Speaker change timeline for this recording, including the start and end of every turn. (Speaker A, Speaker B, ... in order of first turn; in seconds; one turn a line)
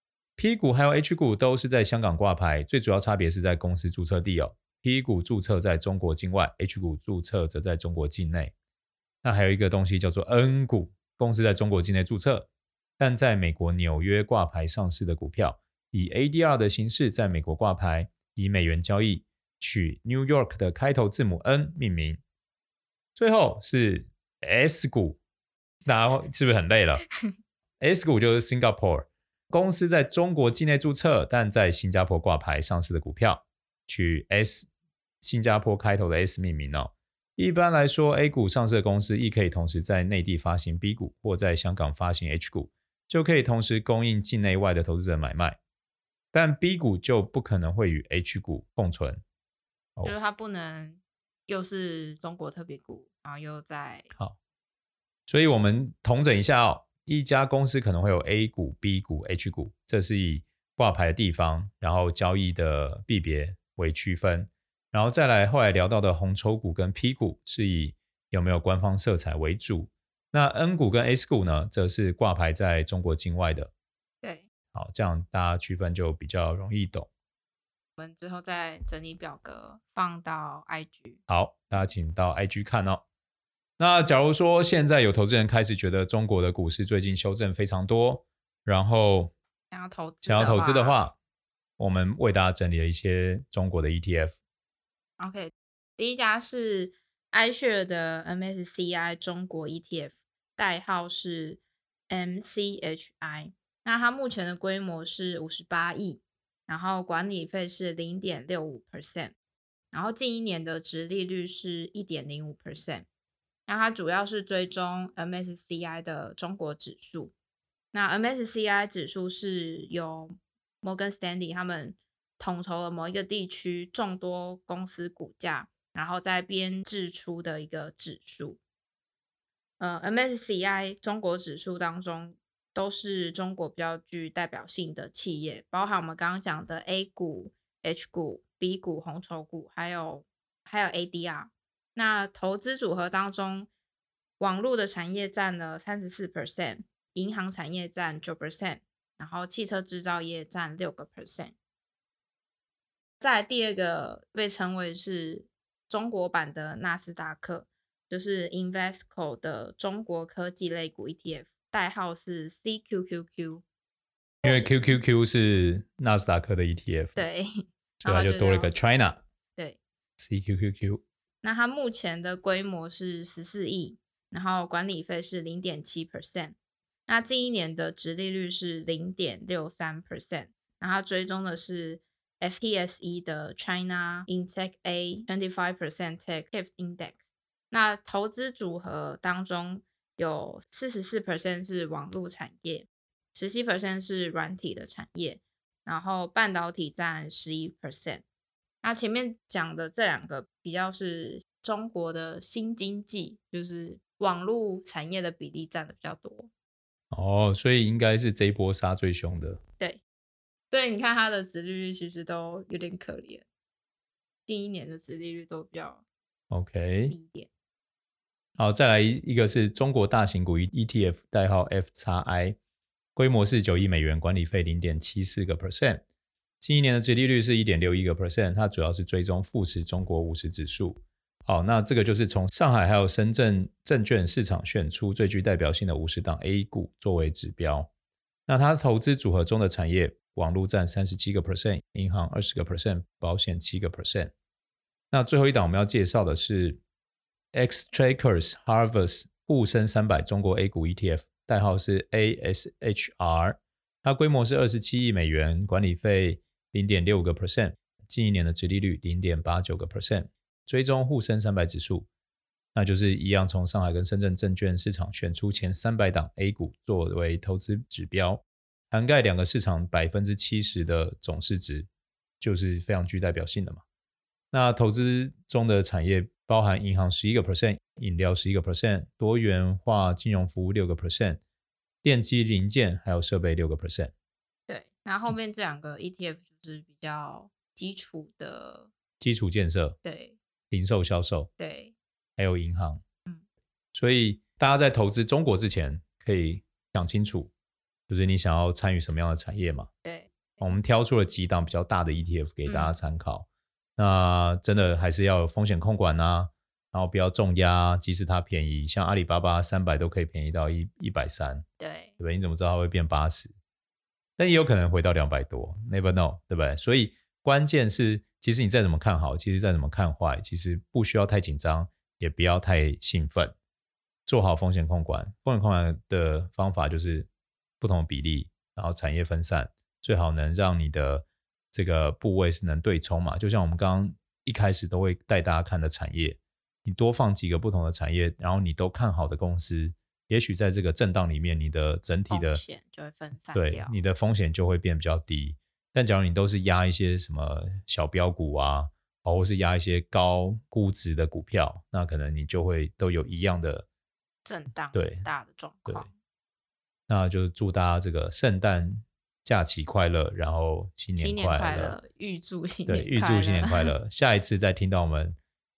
Speaker A: 0.4-8.5
Speaker A: 9.2-12.5
Speaker A: 13.0-22.2
Speaker A: 23.1-25.2
Speaker A: 25.9-27.1
Speaker A: 27.8-34.7
Speaker A: 35.2-45.6
Speaker A: 46.3-49.2
Speaker B: 50.0-54.1
Speaker A: 55.3-73.7
Speaker B: 74.2-74.5
Speaker A: 74.7-77.1
Speaker B: 78.0-81.2
Speaker A: 81.3-83.0
Speaker A: 83.8-89.3
Speaker B: 89.7-91.0
Speaker A: 90.2-91.2
Speaker A: 91.8-94.4
Speaker B: 95.2-109.3
Speaker B: 109.9-113.1
Speaker B: 113.7-117.3
Speaker B: 117.9-128.6
Speaker B: 129.8-143.7
Speaker B: 144.4-151.6
Speaker B: 153.2-163.6
Speaker B: 164.4-164.8
Speaker A: 164.4-167.2
Speaker B: 167.2-168.8
Speaker A: 168.0-169.2
Speaker A: 170.2-171.0
Speaker B: 171.4-187.2
Speaker B: 187.7-198.2
Speaker B: 198.8-206.5
Speaker A: 207.1-209.6
Speaker B: 210.7-213.5
Speaker B: 214.5-216.0
Speaker A: 216.5-217.2
Speaker B: 217.1-217.5
Speaker A: 218.6-222.6
Speaker A: 223.2-226.0
Speaker A: 226.6-237.9
Speaker A: 238.5-244.3
Speaker A: 245.1-246.8
Speaker A: 247.5-262.1
Speaker A: 262.8-271.9
Speaker A: 272.4-273.8
Speaker A: 274.5-281.4
Speaker A: 282.0-284.1
Speaker B: 284.7-288.9
Speaker A: 289.2-290.0
Speaker B: 290.0-290.4
Speaker A: 290.7-291.5
Speaker B: 291.6-291.9
Speaker A: 292.4-293.0
Speaker A: 293.9-297.5
Speaker A: 298.1-299.9
Speaker B: 300.0-300.3
Speaker A: 300.6-311.7
Speaker B: 302.7-303.0
Speaker B: 311.8-312.1
Speaker A: 312.2-313.5
Speaker A: 314.4-323.6
Speaker A: 324.3-327.3
Speaker A: 327.8-342.6
Speaker B: 342.3-343.9
Speaker A: 343.5-353.9
Speaker B: 354.4-356.1
Speaker A: 354.9-355.3
Speaker A: 357.1-362.0
Speaker B: 361.2-363.9
Speaker A: 362.9-365.4